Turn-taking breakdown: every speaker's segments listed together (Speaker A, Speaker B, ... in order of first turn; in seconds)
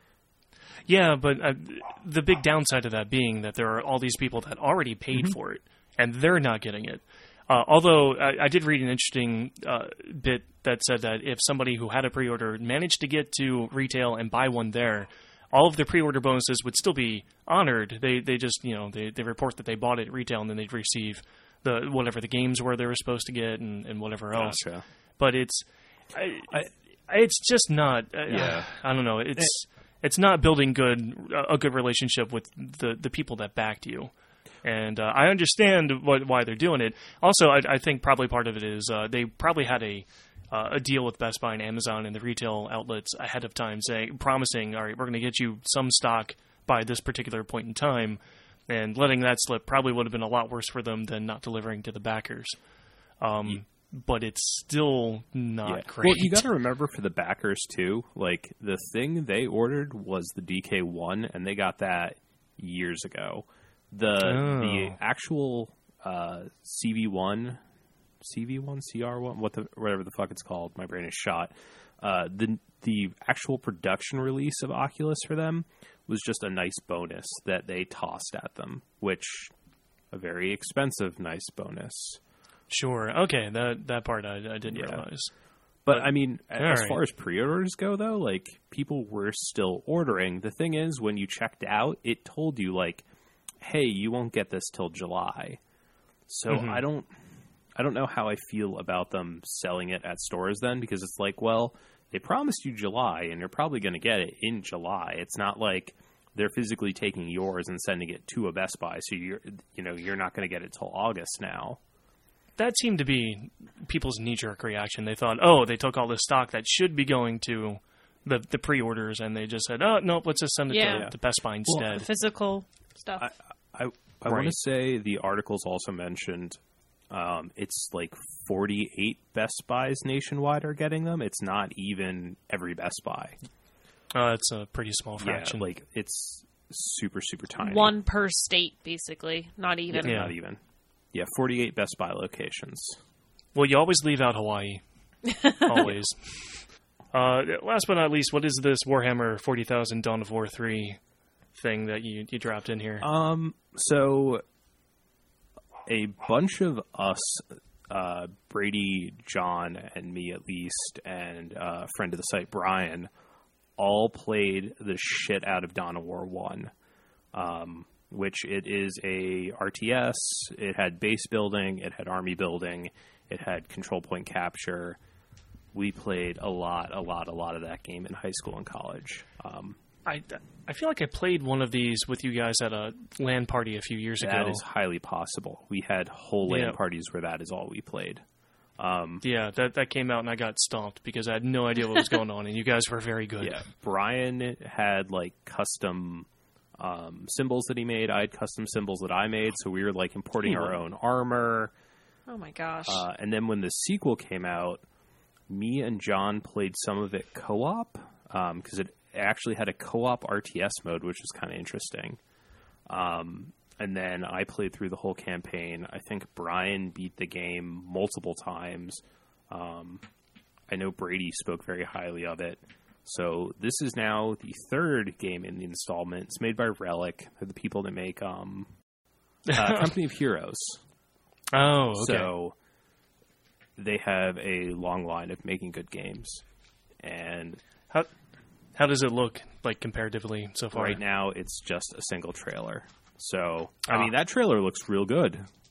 Speaker A: 0.9-24.6, 25.2-34.1, 34.6-52.6, 53.2-56.5, 64.2-65.0, 82.7-85.3, 85.9-87.0, 96.5-96.8, 112.6-122.1, 124.2-124.5, 134.1-135.7, 140.0-140.3, 143.5-144.8, 145.6-151.0, 151.5-153.1, 180.1-184.6, 186.4-186.8, 189.2-193.6, 229.5-229.9, 231.5-232.3, 238.8-241.0
Speaker B: 24.3-24.8, 28.3-28.7, 55.6-67.6, 68.2-79.5, 80.1-82.2, 84.7-85.0, 85.8-93.0, 93.6-95.6, 96.3-97.1, 97.8-111.8, 120.9-121.1, 123.2-133.3, 135.2-137.9, 139.9-140.6, 141.1-143.0, 153.0-154.4, 155.8-163.1, 163.8-166.7, 167.3-175.0, 175.7-179.8, 184.2-188.2, 188.8-189.2, 193.4-201.7, 202.9-204.8, 205.5-212.2, 212.9-220.0, 220.7-228.7, 229.5-230.8, 232.0-232.5, 233.8-236.4, 237.0-237.6, 240.7-245.4
Speaker C: 120.7-121.1, 121.7-123.3, 137.6-140.2, 145.3-145.7, 202.3-203.0